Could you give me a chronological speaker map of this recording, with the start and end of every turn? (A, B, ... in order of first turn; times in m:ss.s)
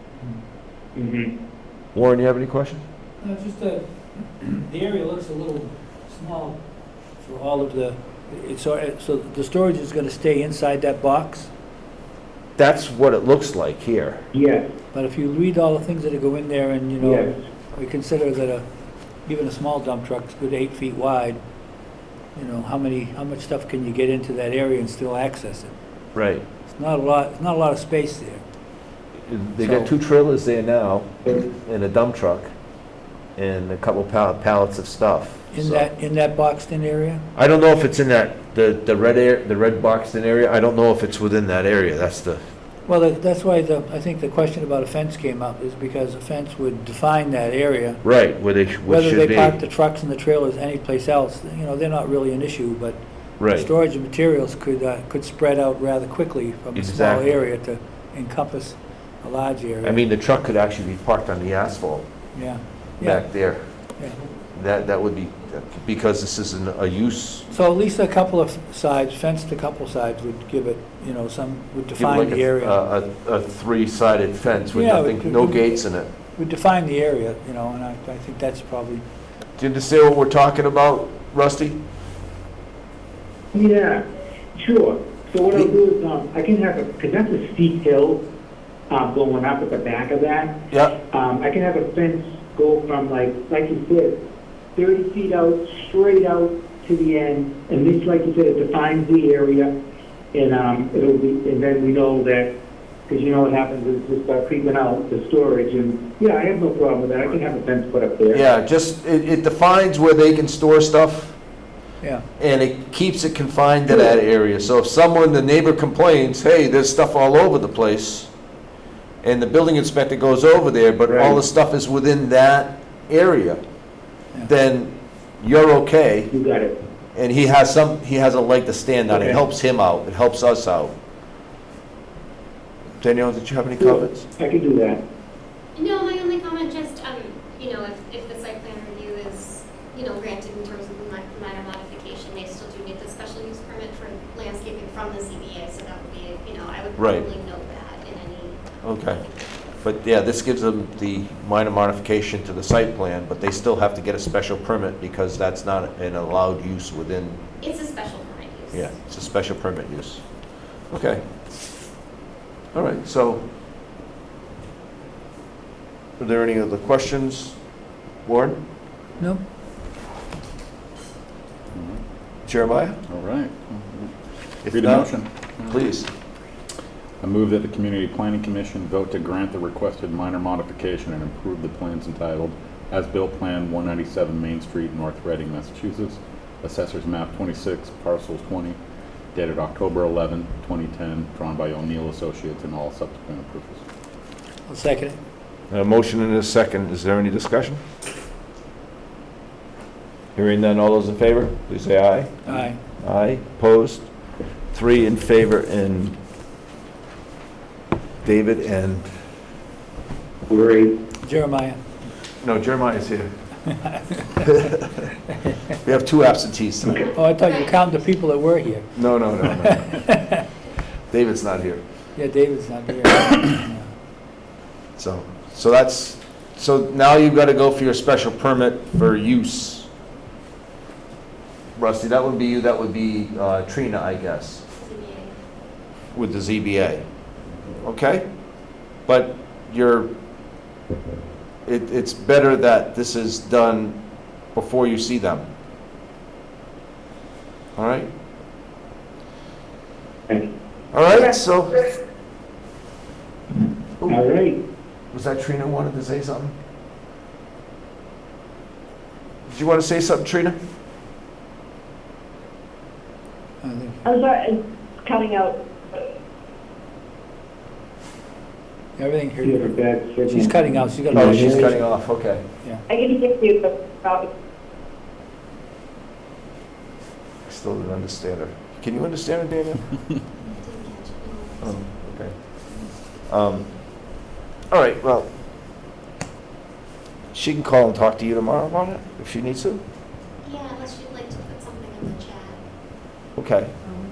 0:01.0-0:01.3 A
0:02.0-0:02.8 B
0:03.2-0:06.6 C
0:07.2-0:11.5 C
0:12.6-0:14.2 B
0:14.3-0:14.7 A
0:14.9-0:18.7 C
0:17.0-0:17.3 A
0:19.3-0:21.4 C
0:22.4-0:25.8 C
0:26.1-0:26.4 B
0:26.7-0:28.4 C
0:29.3-0:32.5 B
0:29.6-0:29.9 C
0:33.4-0:35.9 B
0:35.5-0:37.2 C
0:37.4-0:42.4 B
0:42.9-0:48.0 C
0:48.0-0:49.6 B
0:48.9-1:00.0 C
0:53.4-0:53.7 B
0:56.8-0:57.3 B
0:59.8-1:02.1 B
1:02.3-1:03.3 C
1:03.0-1:03.9 B
1:04.6-1:07.5 B
1:07.5-1:12.8 C
1:12.0-1:16.1 B
1:14.7-1:15.7 C
1:16.3-1:19.0 C
1:19.6-1:21.8 B
1:23.5-1:24.0 A
1:24.6-1:28.2 A
1:28.9-1:30.6 A
1:31.1-1:34.2 A
1:34.8-1:39.7 A
1:40.3-1:42.5 A
1:43.1-1:48.4 A
1:48.3-1:51.4 B
1:52.4-1:58.3 B
1:59.2-2:03.6 B
2:01.1-2:01.4 A
2:04.4-2:06.3 B
2:06.3-2:06.8 A
2:07.2-2:10.9 B
2:09.1-2:09.4 A
2:13.0-2:14.3 B
2:13.8-2:15.0 A
2:15.8-2:29.6 D
2:27.0-2:27.3 B
2:28.8-2:29.2 B
2:29.8-2:37.4 B
2:37.6-2:39.0 D
2:38.7-2:40.2 B
2:40.9-2:41.2 B
2:42.7-2:43.4 B
2:46.2-2:47.6 B
2:48.2-2:48.6 B
2:49.2-2:49.4 C
2:51.7-2:52.0 E
2:52.5-2:53.0 B
2:53.1-2:54.2 E
2:54.6-2:56.1 B
2:54.7-2:55.8 E
2:57.2-3:08.8 E
3:09.3-3:13.8 E
3:14.7-3:15.2 C
3:15.7-3:17.8 B
3:20.4-3:24.1 B
3:22.4-3:22.8 C
3:24.7-3:26.2 B
3:28.2-3:29.1 B
3:30.5-3:31.0 A
3:31.2-3:31.8 C
3:32.4-3:33.3 B
3:34.0-3:34.5 C
3:34.5-3:34.8 B
3:35.8-3:37.1 B
3:36.9-3:37.8 D
3:37.1-3:40.4 C
3:39.0-3:40.1 B
3:41.1-3:41.8 B
3:42.2-3:43.9 C
3:45.0-3:49.9 B
3:51.8-3:54.6 B
3:54.8-3:55.4 D
3:56.1-3:57.0 B
3:57.8-3:58.2 B
3:59.1-4:00.1 B
4:01.7-4:04.0 B
4:04.5-4:05.5 B
4:07.8-4:08.1 B
4:10.9-4:11.9 B
4:14.1-4:14.6 A
4:15.1-4:16.6 B
4:19.5-4:20.6 B
4:23.6-4:24.0 C
4:24.0-4:25.6 F
4:29.0-4:29.7 C
4:29.4-4:31.8 A
4:30.3-4:31.8 C
4:31.1-4:32.4 B
4:32.9-4:34.3 F
4:37.5-4:39.8 B
4:40.4-4:42.0 D
4:41.6-4:42.6 B
4:43.1-4:43.7 B
4:44.7-4:45.3 B
4:47.3-4:49.8 B
4:50.4-4:52.6 D
4:53.4-4:53.7 B